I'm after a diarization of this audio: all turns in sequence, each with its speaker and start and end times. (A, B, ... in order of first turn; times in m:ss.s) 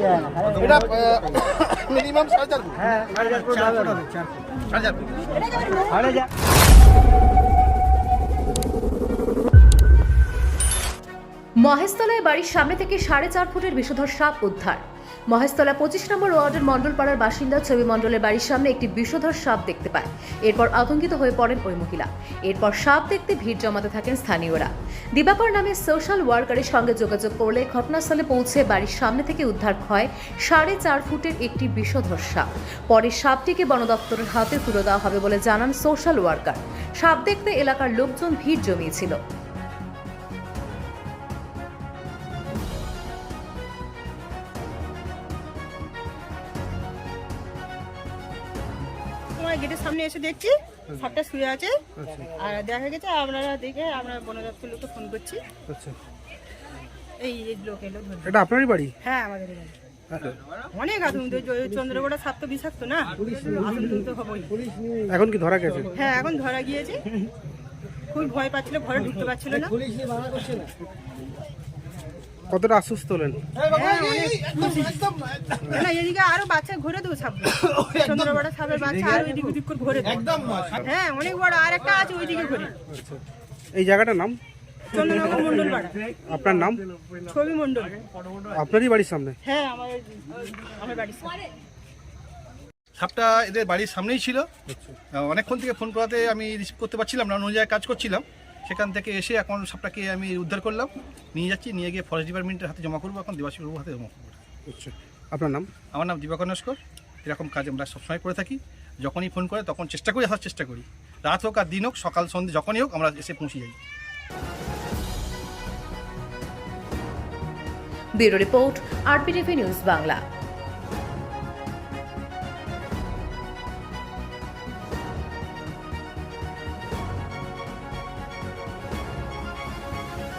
0:00.5-0:04.0 A
0:04.7-0:05.1 A
0:11.6-0:39.2 B
0:49.4-0:51.8 C
0:52.0-0:52.3 D
0:52.4-0:55.4 C
0:55.7-0:55.9 D
0:57.2-0:58.4 C
0:58.2-0:58.9 D
0:59.0-0:59.7 C
1:00.1-1:00.4 D
1:00.7-1:04.6 C
1:05.1-1:05.9 D
1:05.9-1:07.0 C
1:08.1-1:09.8 C
1:12.5-1:13.5 D
1:13.6-1:15.1 C
1:15.6-1:22.7 C
1:22.9-1:23.2 D
1:23.7-1:24.4 D
1:24.9-1:26.0 C
1:26.2-1:26.8 D
1:27.3-1:28.0 C
1:28.5-1:29.4 D
1:29.4-1:31.4 C
1:33.0-1:34.5 A
1:34.7-1:35.0 D
1:35.1-1:44.4 A
1:44.7-1:45.7 D
1:45.9-1:53.8 A
1:58.2-2:00.2 B